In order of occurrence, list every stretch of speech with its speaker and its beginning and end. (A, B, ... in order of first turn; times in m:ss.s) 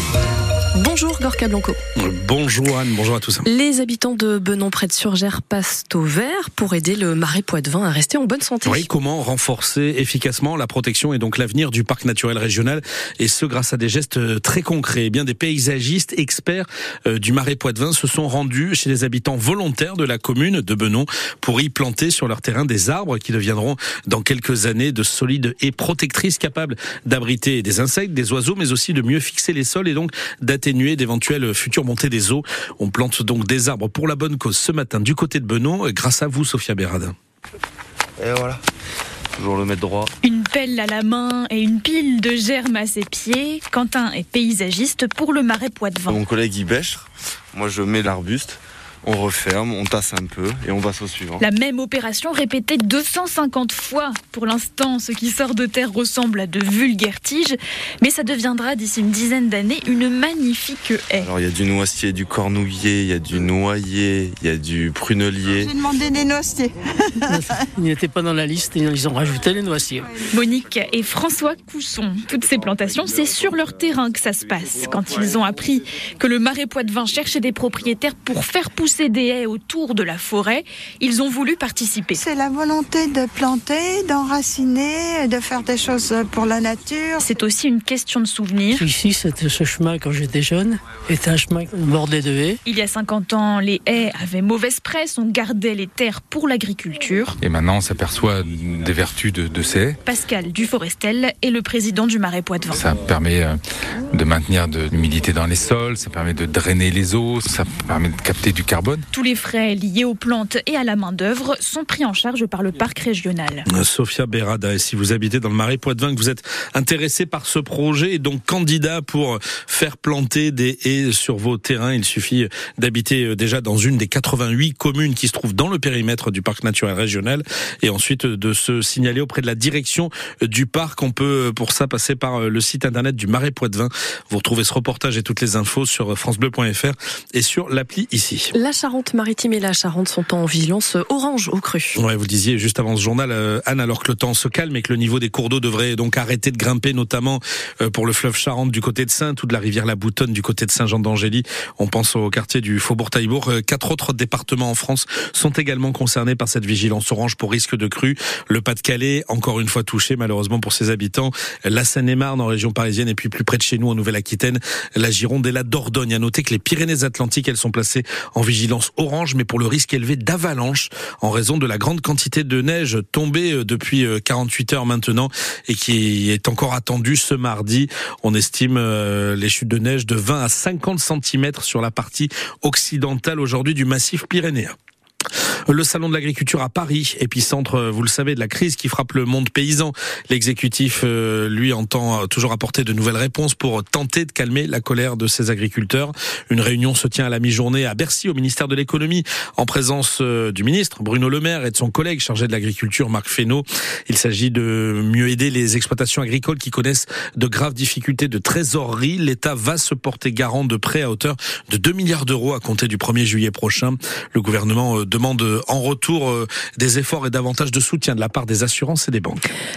0:00.8-0:01.8 A
0:02.0-0:03.5 B
0:03.4-0:08.9 A
0:08.6-0:37.1 B
0:38.2-0:38.6 C
0:39.4-0:40.1 C
0:40.2-0:46.2 D
0:46.1-0:51.4 C
0:51.4-1:01.3 D
1:01.2-1:05.7 C
1:05.6-1:06.8 E
1:07.2-1:10.2 F
1:10.3-1:22.2 D
1:22.2-1:27.2 E
1:27.2-1:28.8 D
1:28.7-1:32.6 F
1:32.6-1:37.3 D
1:37.4-1:40.0 G
1:40.0-1:42.9 D
1:42.7-1:43.6 G
1:44.1-1:49.0 G
1:49.1-1:53.6 D
1:53.7-2:18.5 B
2:18.5-2:22.0 A
2:21.9-3:04.7 B
3:05.7-3:39.5 B